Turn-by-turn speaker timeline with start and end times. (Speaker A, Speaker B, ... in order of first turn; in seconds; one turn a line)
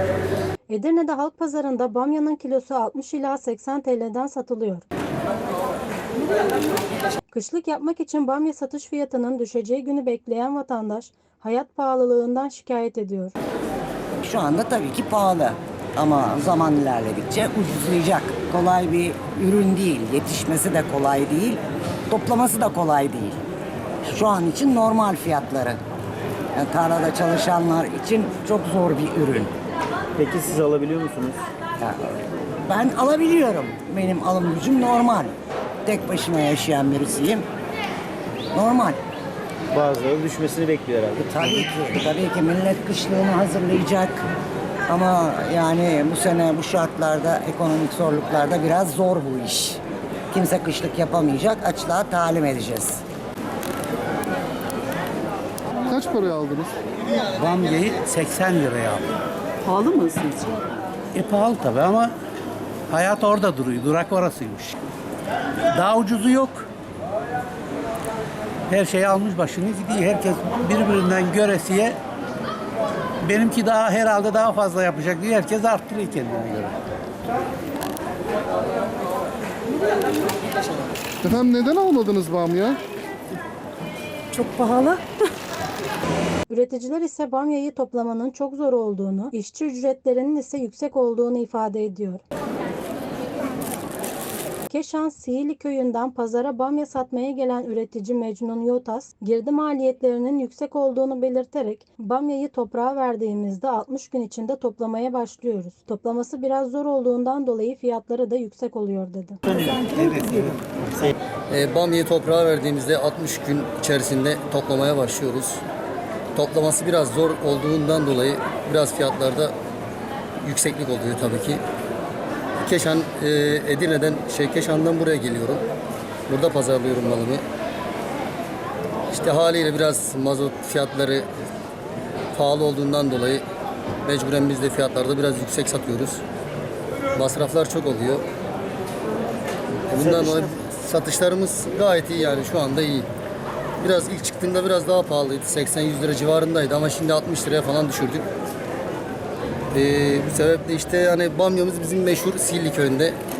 Speaker A: 0.7-4.8
Speaker A: 7.3-13.3
Speaker B: 14.2-23.4
Speaker B: 24.1-25.8
Speaker B: 26.5-29.5
Speaker C: 30.1-31.4
Speaker B: 31.8-35.3
Speaker B: 35.9-37.4
Speaker B: 38.5-39.0
Speaker C: 39.7-41.6
Speaker B: 41.2-44.2
Speaker B: 44.9-49.8
Speaker B: 50.3-53.0
Speaker D: 55.8-56.8
Speaker E: 57.3-59.1
Speaker F: 59.6-60.6
Speaker E: 61.1-62.1
Speaker E: 62.9-64.7
Speaker E: 65.7-66.7
Speaker E: 68.7-71.9
Speaker E: 73.2-76.7
Speaker D: 81.2-82.8
Speaker F: 84.3-85.0
Speaker A: 86.5-92.2
Speaker A: 94.7-109.4
Speaker F: 109.6-110.5
Speaker G: 111.5-115.6
Speaker G: 116.3-119.5
Speaker G: 120.4-121.6
Speaker G: 122.6-125.6
Speaker G: 126.3-127.4
Speaker G: 129.1-131.2
Speaker G: 132.3-133.4
Speaker G: 134.1-136.2
Speaker G: 137.1-138.2
Speaker G: 139.9-143.1
Speaker G: 143.8-148.3
Speaker G: 149.7-153.2